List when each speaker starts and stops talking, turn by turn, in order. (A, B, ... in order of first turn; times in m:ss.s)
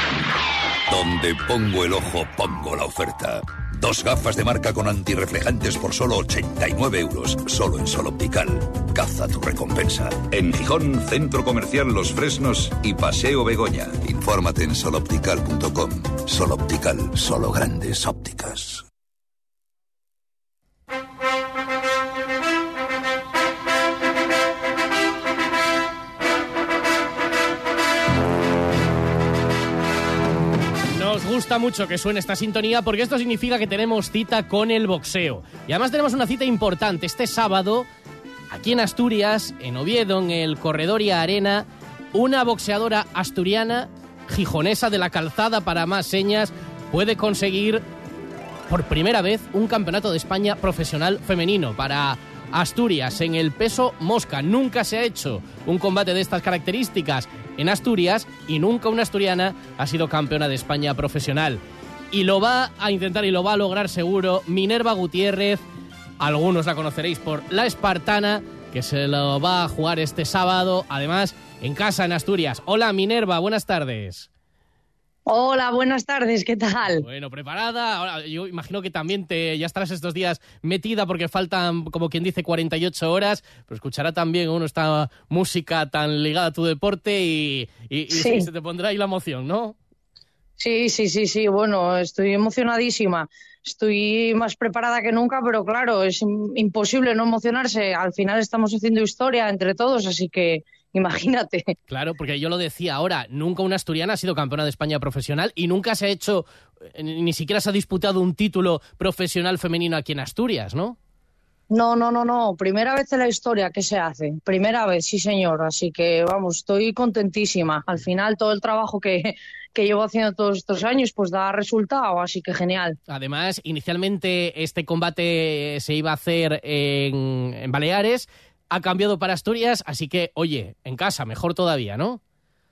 0:00.9-0:18.8 A
0:30.9-0:37.9 B
0:38.5-0:47.8 B
0:48.7-1:05.6 B
1:06.2-1:14.3 B
1:15.2-1:17.0 C
1:17.0-1:29.8 B
1:28.1-1:28.5 C
1:30.6-1:41.7 C
1:41.9-1:51.0 B
1:51.7-2:03.0 C
2:03.1-2:12.2 B